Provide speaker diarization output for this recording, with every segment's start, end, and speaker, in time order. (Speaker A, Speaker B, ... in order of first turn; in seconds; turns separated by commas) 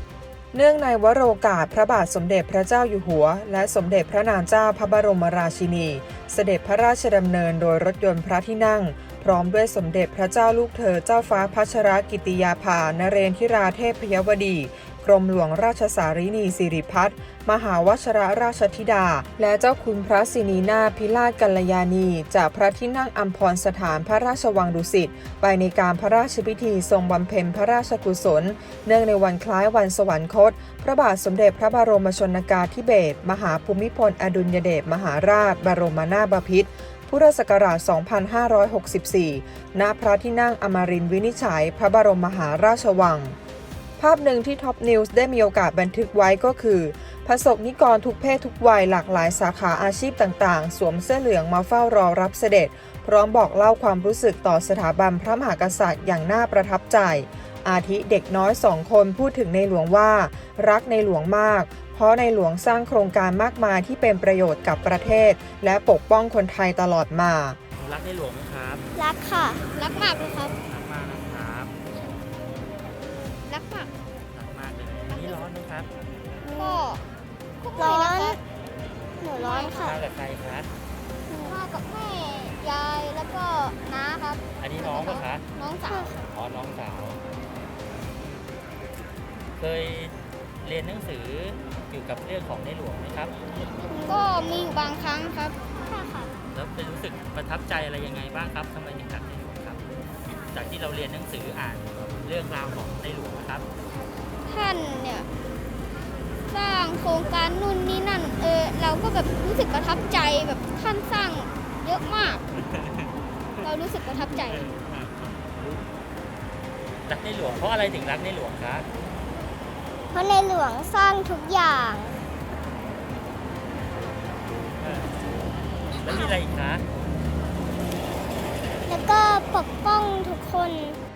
Speaker A: 0.5-43.4, Speaker A: 44.0-67.6, Speaker B: 67.8-68.8, Speaker C: 69.0-70.5, Speaker B: 70.6-71.7, Speaker C: 73.5-73.9, Speaker B: 74.3-75.9, Speaker C: 75.1-75.4, Speaker C: 76.4-77.0, Speaker C: 77.6-78.4, Speaker C: 79.2-80.0, Speaker B: 79.8-80.7, Speaker C: 81.3-86.2, Speaker B: 84.6-85.5, Speaker B: 86.3-87.2, Speaker B: 89.6-93.4, Speaker C: 93.9-96.3, Speaker B: 96.5-99.8, Speaker B: 100.5-103.7, Speaker C: 104.5-105.3, Speaker C: 106.5-112.4, Speaker B: 112.6-113.1, Speaker C: 113.6-114.7, Speaker B: 114.5-115.8, Speaker B: 117.0-118.9, Speaker C: 120.1-122.2, Speaker B: 124.8-125.1, Speaker B: 126.0-126.8, Speaker C: 128.9-131.0